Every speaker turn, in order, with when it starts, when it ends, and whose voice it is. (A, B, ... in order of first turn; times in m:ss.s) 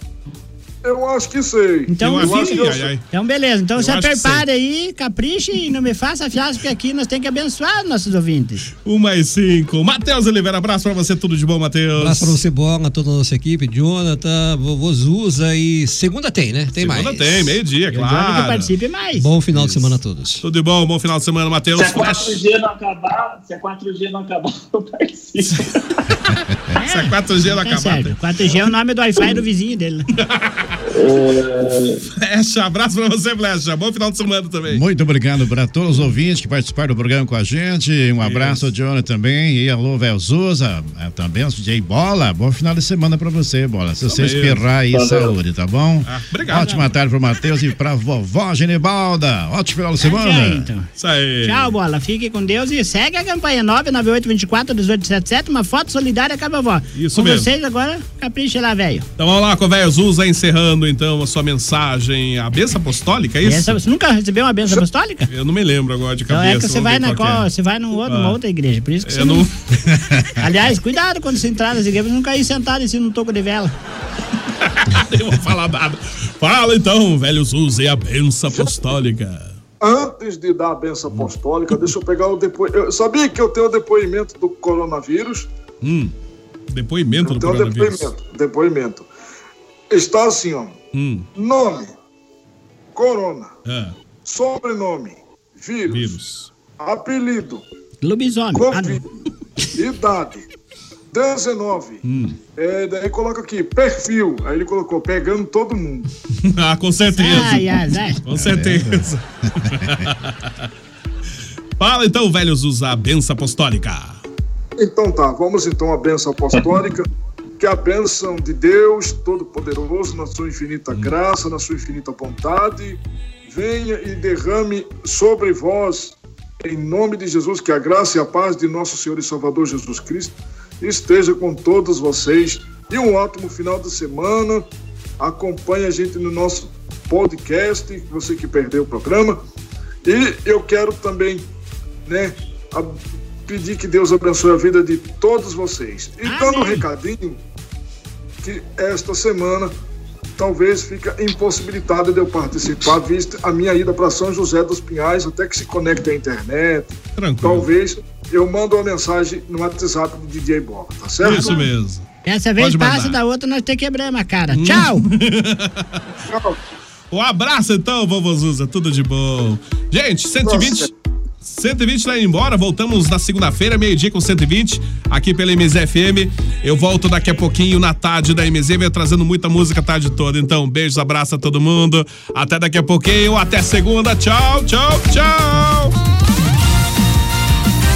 0:00.8-0:02.9 A
0:01.9-0:08.7 B
0:02.0-0:03.0 C
0:03.8-0:04.4 C
0:08.8-0:12.4 C
0:12.0-0:17.6 D
0:16.7-0:18.7 C
0:17.9-0:19.3 B
0:19.2-0:20.4 D
0:19.5-0:22.4 C
0:21.8-0:25.8 E
0:26.7-0:30.0 B
0:26.9-0:28.2 C
0:30.2-0:30.5 C
0:30.9-0:32.0 E
0:32.1-0:34.8 C
0:34.7-0:50.7 F
0:38.2-0:38.6 C
0:44.0-0:44.6 C
0:44.9-0:45.3 E
0:46.0-0:46.8 C
0:50.0-0:50.9 B
0:51.0-0:51.7 C
0:51.4-0:59.0 B
0:56.9-0:57.5 C
0:59.2-1:03.8 C
1:03.4-1:05.3 B
1:05.3-1:07.4 C
1:06.3-1:09.5 B
1:08.0-1:08.4 C
1:09.0-1:09.5 C
1:10.4-1:13.7 B
1:14.6-1:19.6 C
1:19.8-1:25.5 A
1:21.1-1:21.8 C
1:25.8-1:26.1 C
1:26.7-1:28.1 C
1:27.2-1:29.1 A
1:29.9-1:30.8 A
1:30.9-1:31.3 C
1:31.4-1:31.9 A
1:32.9-1:33.5 A
1:33.6-1:33.9 C
1:34.2-1:36.1 A
1:35.9-1:36.5 C
1:36.8-1:37.6 A
1:38.0-1:39.0 B
1:38.5-1:39.0 A
1:39.7-1:40.4 A
1:41.1-1:42.0 A
1:42.0-1:42.4 C
1:42.6-1:46.0 A
1:46.4-1:50.3 C
1:47.2-1:48.2 B
1:48.3-1:49.1 F
1:51.8-1:54.2 C
1:54.8-1:57.1 A
1:57.6-2:14.6 A
2:15.2-2:19.4 A
2:20.0-2:21.4 A
2:22.0-2:27.4 A
2:26.2-2:26.8 B
2:28.4-2:29.7 A
2:30.4-2:41.6 A
2:37.2-2:37.6 C
2:41.2-2:42.0 C
2:42.2-2:45.0 B
2:42.6-2:43.2 C
2:44.5-2:45.8 C
2:46.3-2:46.6 A
2:47.1-2:50.9 C
2:50.4-2:50.9 A
2:51.4-3:05.9 C